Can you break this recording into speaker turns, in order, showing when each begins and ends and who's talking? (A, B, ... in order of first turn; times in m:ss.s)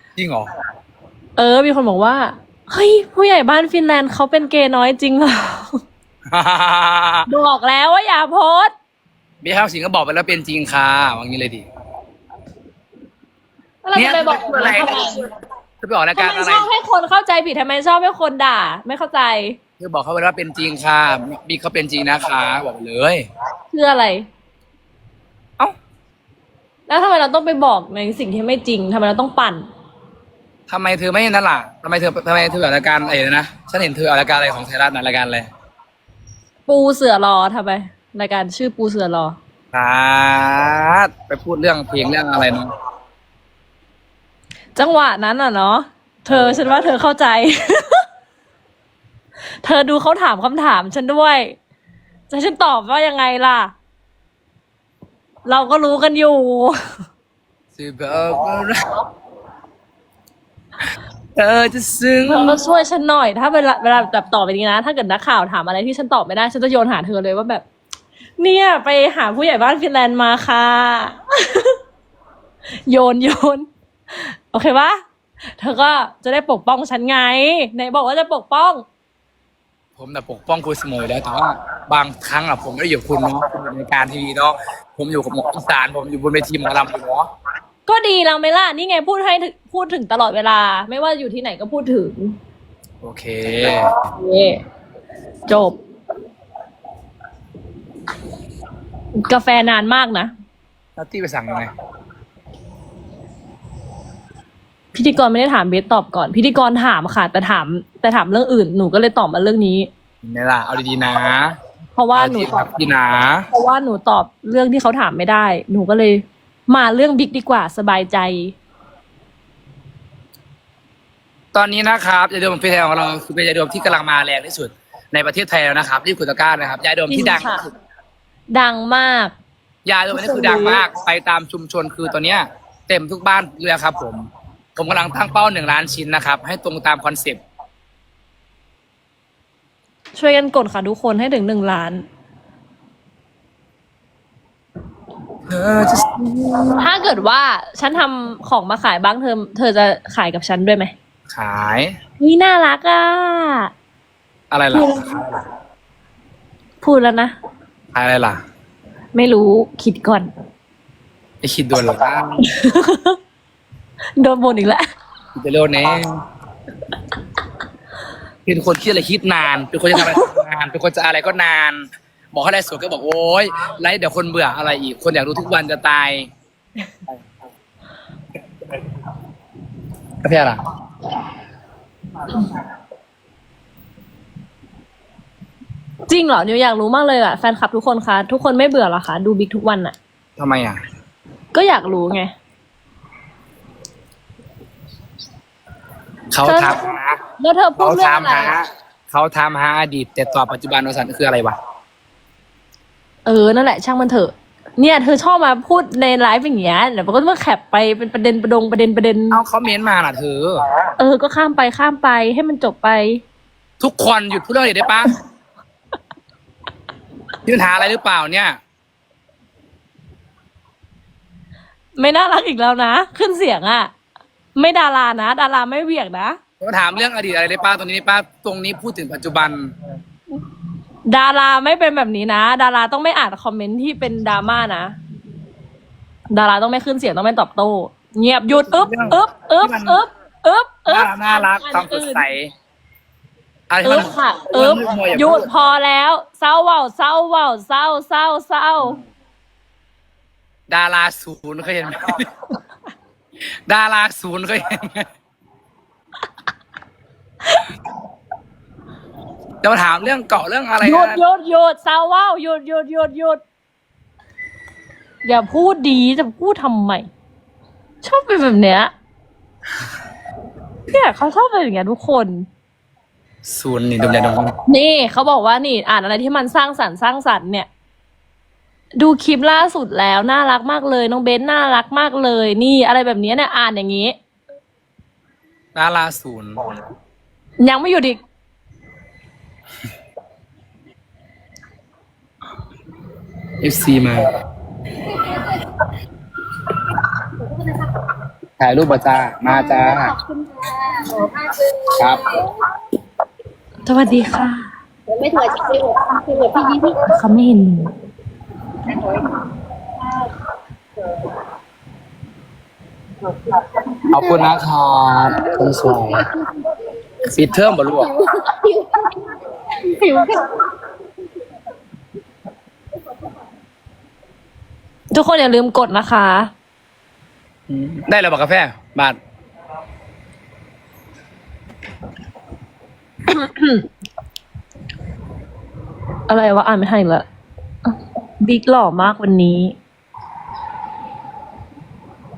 0:00.2-0:00.5 A
0:01.4-0:05.8 B
0:06.3-0:07.3 A
0:07.3-0:08.7 B
0:09.4-0:11.6 A
0:13.8-0:15.3 B
0:13.9-0:15.1 A
0:15.8-0:16.7 A
0:16.2-0:19.6 B
0:19.8-0:23.2 A
0:23.7-0:24.3 B
0:26.9-0:29.6 B
0:30.7-0:35.5 A
0:36.7-0:39.4 B
0:39.7-0:42.7 A
0:44.8-0:48.0 B
0:46.3-0:46.7 A
0:49.6-0:51.6 B
0:52.3-0:53.7 B
0:55.4-0:56.8 B
0:57.8-0:58.9 A
1:01.4-1:02.6 A
1:02.3-1:07.6 B
1:08.4-1:11.8 B
1:12.9-1:15.0 B
1:15.6-1:18.8 B
1:20.0-1:27.3 A
1:27.9-1:32.4 B
1:33.0-1:33.9 A
1:34.1-1:34.6 B
1:35.5-1:35.8 B
1:39.2-1:40.3 B
1:41.0-1:41.7 A
1:44.9-1:49.9 B
1:50.2-1:51.6 A
1:52.0-1:52.6 B
1:52.1-1:53.4 A
1:53.5-1:58.6 B
2:01.5-2:07.7 A
2:07.1-2:07.6 B
2:08.5-2:09.3 B
2:09.8-2:17.4 A
2:10.1-2:10.8 B
2:20.1-2:22.0 B
2:25.5-2:26.2 A
2:26.7-2:30.9 B
2:31.3-2:31.9 A
2:32.2-2:33.7 B
2:34.5-2:35.4 A
2:34.7-2:35.2 B
2:36.8-2:37.3 B
2:37.9-2:38.4 A
2:39.1-2:40.3 B
2:41.4-2:42.5 A
2:42.4-2:43.2 B
2:44.2-2:44.8 B
2:45.3-2:46.2 A
2:48.4-2:56.3 A
2:49.9-2:50.4 B
3:00.2-3:00.6 A
3:06.1-3:10.0 B
3:10.4-3:10.8 A
3:11.5-3:12.3 B
3:16.3-3:17.2 A
3:16.4-3:18.5 B
3:17.8-3:21.6 A
3:23.2-3:29.4 B
3:29.3-3:30.6 A
3:31.0-3:33.2 B
3:33.8-3:35.1 A
3:37.4-3:38.6 A
3:42.0-3:43.9 B
3:44.5-3:46.4 B
3:46.6-3:49.7 A
3:51.1-3:55.0 B
3:56.3-4:02.2 B
3:58.6-4:00.0 A
4:00.9-4:02.5 A
4:03.7-4:05.5 A
4:03.8-4:09.0 B
4:10.7-4:12.3 A
4:13.7-4:15.1 A
4:19.6-4:21.2 A
4:20.8-4:23.4 B
4:25.2-4:27.0 B
4:28.0-4:28.9 B
4:30.9-4:32.4 B
4:33.4-4:34.5 A
4:34.6-4:37.7 B
4:39.0-4:44.1 B
4:45.7-4:46.6 A
4:47.6-4:48.2 B
4:53.6-4:54.3 A
4:58.6-5:00.2 A
5:00.4-5:01.6 C
5:01.9-5:02.3 A
5:03.8-5:04.7 B
5:05.1-5:06.8 C
5:06.8-5:07.9 B
5:14.1-5:16.2 A
5:17.2-5:18.2 A
5:25.1-5:26.5 B
5:27.7-5:29.2 A
5:33.3-5:33.8 B
5:36.3-5:37.2 B
5:37.8-5:39.8 B